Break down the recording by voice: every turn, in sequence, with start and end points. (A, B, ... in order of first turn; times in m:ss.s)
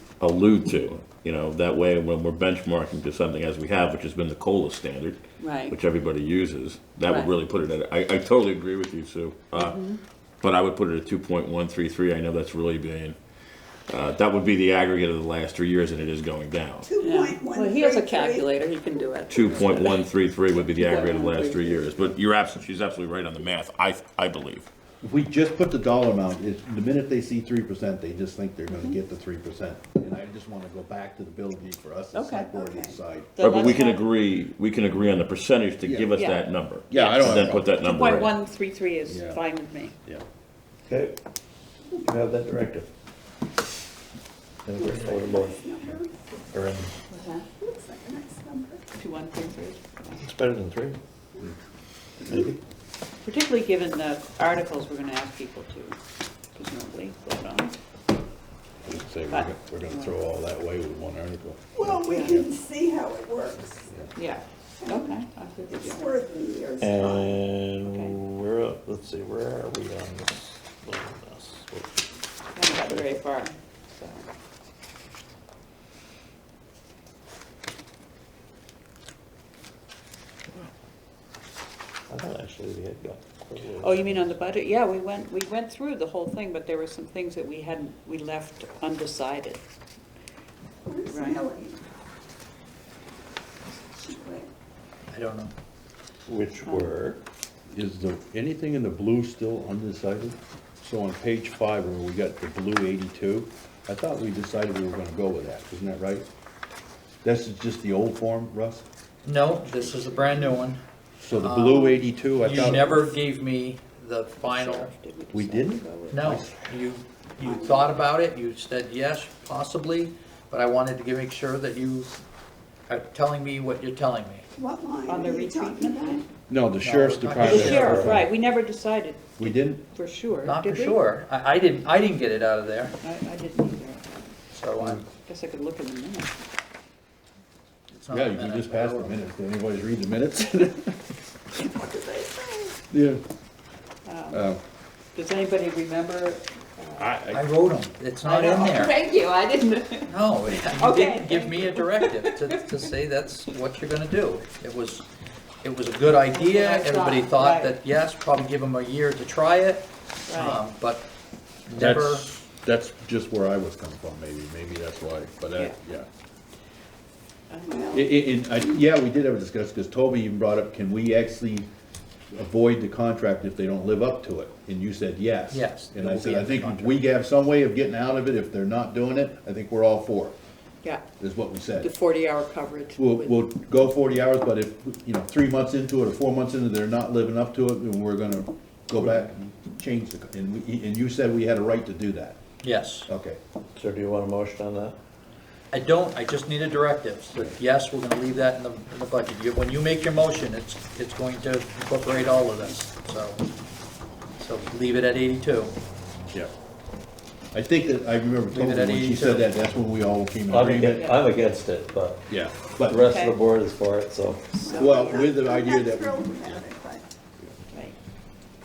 0:00.2-0:09.8 A
0:05.4-0:05.8 B
0:09.5-0:09.9 B
0:10.4-0:13.2 A
0:13.9-0:16.9 A
0:16.8-0:19.1 C
0:17.0-0:22.0 B
0:19.3-0:24.7 A
0:21.1-0:21.4 D
0:25.0-0:33.4 E
0:32.1-0:32.4 B
0:32.4-0:33.0 C
0:33.4-0:34.0 B
0:33.4-0:38.3 A
0:35.8-0:36.1 E
0:36.1-0:36.4 B
0:36.9-0:37.8 E
0:36.9-0:40.0 B
0:39.0-0:39.4 E
0:40.8-0:41.2 D
0:42.0-0:42.9 D
0:44.6-0:45.8 D
0:44.8-0:46.1 C
0:46.5-0:46.9 D
0:47.1-0:47.4 B
0:47.5-0:48.9 C
0:48.9-0:50.2 B
0:50.2-0:51.0 D
0:52.2-0:52.6 D
0:53.2-0:56.0 B
0:56.5-0:57.8 B
0:58.8-1:02.5 E
1:01.7-1:03.9 C
1:04.2-1:06.0 B
1:04.8-1:05.2 C
1:05.7-1:07.4 C
1:06.8-1:12.1 D
1:07.8-1:08.2 B
1:12.5-1:14.3 B
1:12.6-1:13.2 D
1:22.1-1:24.3 D
1:23.6-1:29.6 B
1:30.8-1:31.8 C
1:31.1-1:31.4 B
1:33.8-1:34.5 C
1:35.1-1:35.5 F
1:36.3-1:37.2 D
1:36.6-1:36.9 B
1:37.7-1:46.2 E
1:47.2-1:48.8 E
1:49.2-1:50.8 F
1:49.7-1:50.3 E
1:51.2-1:53.0 E
1:51.3-1:54.9 F
1:54.5-1:56.2 B
1:55.3-1:56.7 E
1:56.1-2:02.2 F
1:57.4-1:57.8 C
2:02.9-2:04.4 F
2:04.5-2:06.2 C
2:05.1-2:06.2 B
2:06.5-2:08.3 E
2:06.8-2:08.1 F
2:07.4-2:11.0 B
2:07.7-2:08.1 D
2:09.4-2:09.8 E
2:10.4-2:13.0 F
2:13.0-2:14.3 B
2:14.5-2:15.0 F
2:15.1-2:16.3 B
2:17.9-2:19.2 F
2:18.1-2:21.1 E
2:21.6-2:22.7 B
2:21.8-2:22.6 C
2:22.9-2:23.2 E
2:24.0-2:24.4 B
2:24.3-2:24.6 E
2:25.1-2:27.0 B
2:27.0-2:27.4 E
2:27.3-2:29.0 F
2:28.3-2:30.1 B
2:28.3-2:28.8 D
2:30.1-2:35.0 F
2:30.8-2:32.1 B
2:35.6-2:41.1 F
2:36.3-2:37.7 B
2:40.3-2:40.6 B
2:41.6-2:42.3 F
2:41.7-2:46.1 E
2:47.5-2:47.9 B
2:47.6-2:48.1 C
2:47.9-2:51.7 E
2:52.3-3:00.3 E
2:55.5-2:57.0 F
3:01.2-3:01.9 E
3:01.8-3:03.3 B
3:03.0-3:12.4 E
3:12.6-3:13.1 F
3:13.1-3:13.4 E
3:13.8-3:15.0 D
3:15.7-3:23.4 F
3:24.4-3:25.7 F
3:27.5-3:31.1 E
3:28.5-3:29.5 F
3:30.5-3:32.2 D
3:30.9-3:31.2 B
3:32.3-3:33.1 E
3:32.9-3:34.6 D
3:33.0-3:33.4 B
3:34.6-3:35.2 B
3:34.6-3:37.0 C
3:34.8-3:36.6 E